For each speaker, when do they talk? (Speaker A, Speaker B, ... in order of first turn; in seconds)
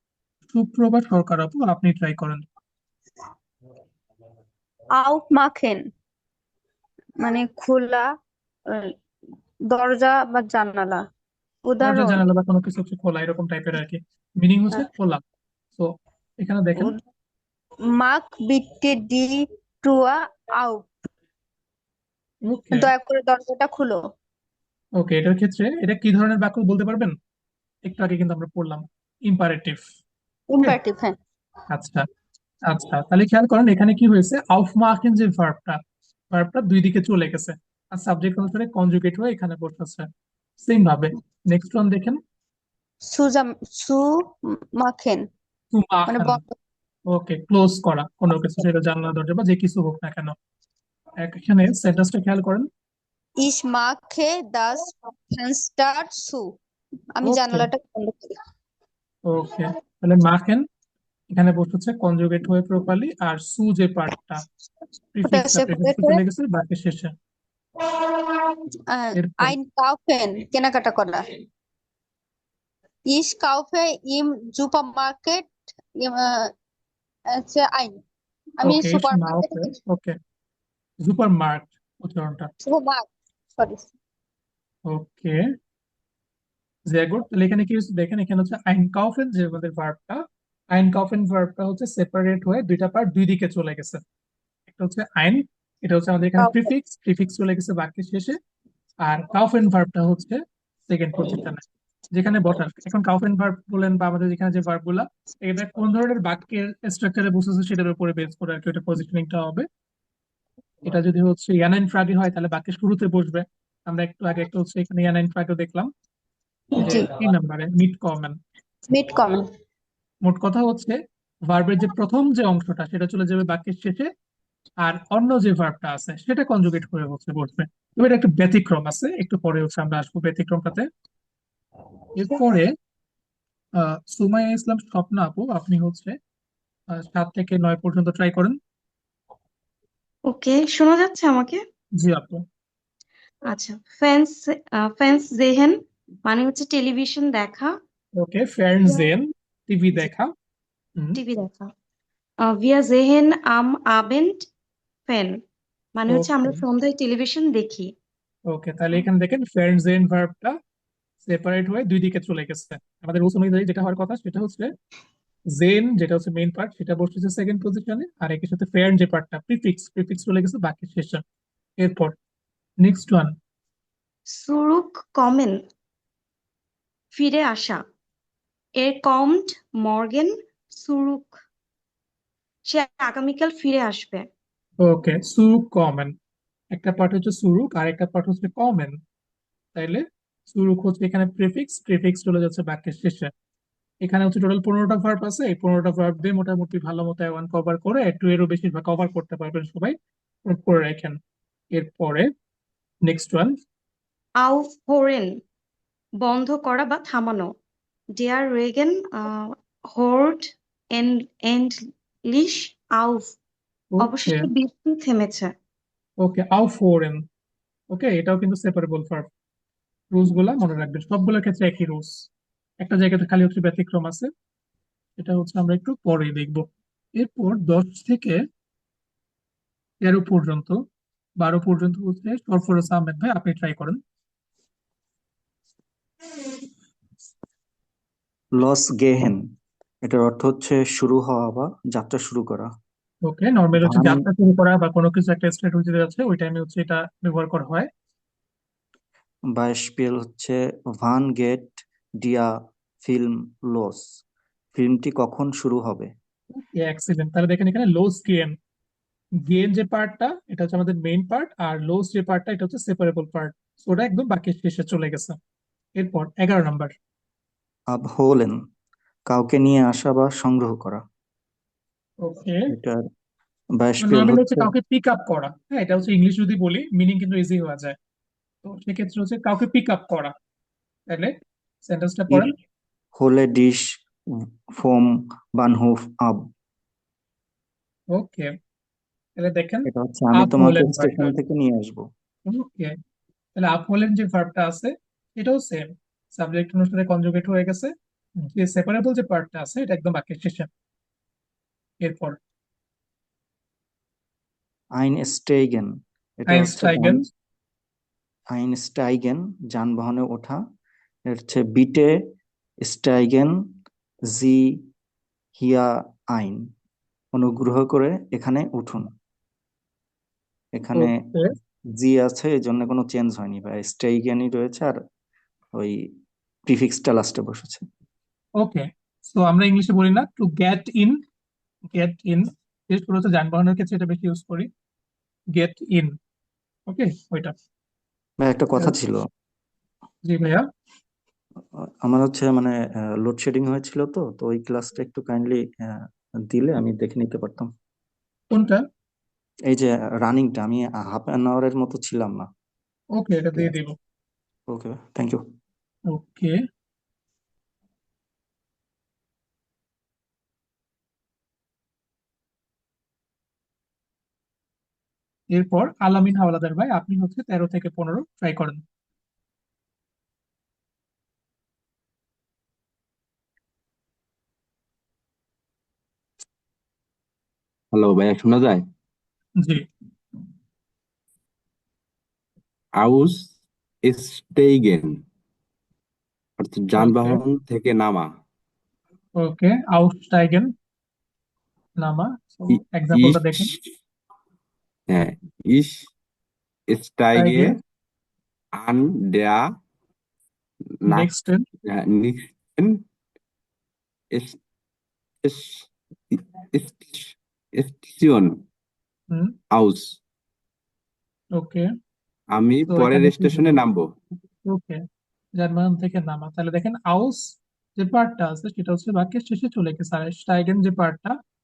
Speaker A: 0.5-2.5, 11.8-15.2, 15.8-16.9, 22.5-22.9, 25.0-27.1, 27.9-29.8, 31.7-32.0, 32.7-35.8, 36.3-40.1, 40.6-42.2, 45.7-46.4, 47.1-50.3, 51.2-52.7, 57.2-57.7, 59.3-60.7, 61.3-64.5, 65.1-67.1, 69.2-69.5, 78.6-80.1, 81.0-82.5, 84.9-85.4, 86.9-94.0, 94.7-98.4, 99.0-109.7, 110.8-115.9, 116.8-118.4, 120.2-121.0, 121.5-124.1, 124.8-130.9, 132.2-132.7, 133.8-136.2, 136.9-138.6, 142.0-142.4, 148.2-150.3, 156.1-156.6, 158.5-160.6, 161.2-164.7, 165.6-171.2, 171.8-172.2, 172.8-173.3, 184.8-186.1, 186.7-189.0, 189.8-193.3, 194.0-199.9, 200.5-201.2, 201.7-202.3, 203.1-203.6, 213.9-214.5, 216.2-217.2, 217.9-219.3, 220.1-222.1, 222.8-224.3, 225.2-226.7, 227.2-228.4, 230.0-230.8, 231.4-234.0, 243.3-247.9, 256.6-258.6, 259.5-265.4, 266.0-266.9, 272.2-272.7, 274.0-278.0, 278.6-280.3, 281.1-281.3, 281.9-282.5, 288.1-288.5, 289.4-291.3, 292.5-292.9, 293.6-297.9, 298.5-300.7, 302.0-302.4, 306.5-307.3, 320.9-321.5, 328.6-331.2, 331.9-334.7, 335.6-336.1, 336.9-337.5, 340.3-340.6, 348.5-348.8, 353.2-353.9, 356.1-356.6, 365.5-368.8, 387.0-387.4, 389.4-390.7, 392.0-393.7, 397.4-397.8, 401.1-401.6, 411.6-411.9, 412.9-413.8, 414.6-415.0, 415.6-421.4
Speaker B: 4.9-5.9, 7.2-8.1, 9.7-11.0, 11.6-12.2, 17.9-20.9, 22.7-24.0, 30.5-31.2, 43.1-45.2, 46.1-46.5, 53.4-56.5, 57.2-58.4, 65.2-66.2, 68.9-71.2, 73.1-76.5, 77.3-78.0, 78.6-79.8, 82.6-83.9, 96.4-96.7, 118.9-119.5
Speaker C: 140.3-141.6, 143.5-145.8, 146.3-147.7, 151.2-151.7, 152.5-154.5, 155.1-155.4, 156.0-157.9, 174.3-175.6, 177.1-177.8, 178.8-181.4, 182.7-184.3, 204.4-205.3, 206.2-207.5, 208.2-211.8, 212.3-213.2, 214.0-215.5
Speaker D: 238.6-239.4, 240.0-242.7, 243.8-244.2, 249.5-252.5, 253.0-254.1, 254.7-256.1, 267.9-268.6, 269.3-271.0, 272.7-273.0, 273.8-274.7, 283.2-283.9, 284.4-286.5, 289.9-292.1, 305.0-307.2, 308.5-310.6, 311.3-312.2, 312.8-313.5, 314.3-314.8, 315.6-316.7, 317.3-319.1, 320.8-321.2, 322.0-325.0, 325.8-326.1, 326.7-327.8, 338.4-339.3, 341.7-347.7, 349.7-352.5, 354.7-355.4
Speaker E: 377.9-378.8, 383.0-385.2, 386.6-388.3, 392.7-393.9, 395.1-396.1, 396.9-397.8, 398.8-399.6, 401.0-401.3, 401.9-403.0, 404.3-404.6, 405.4-408.6, 409.7-410.2, 412.5-414.1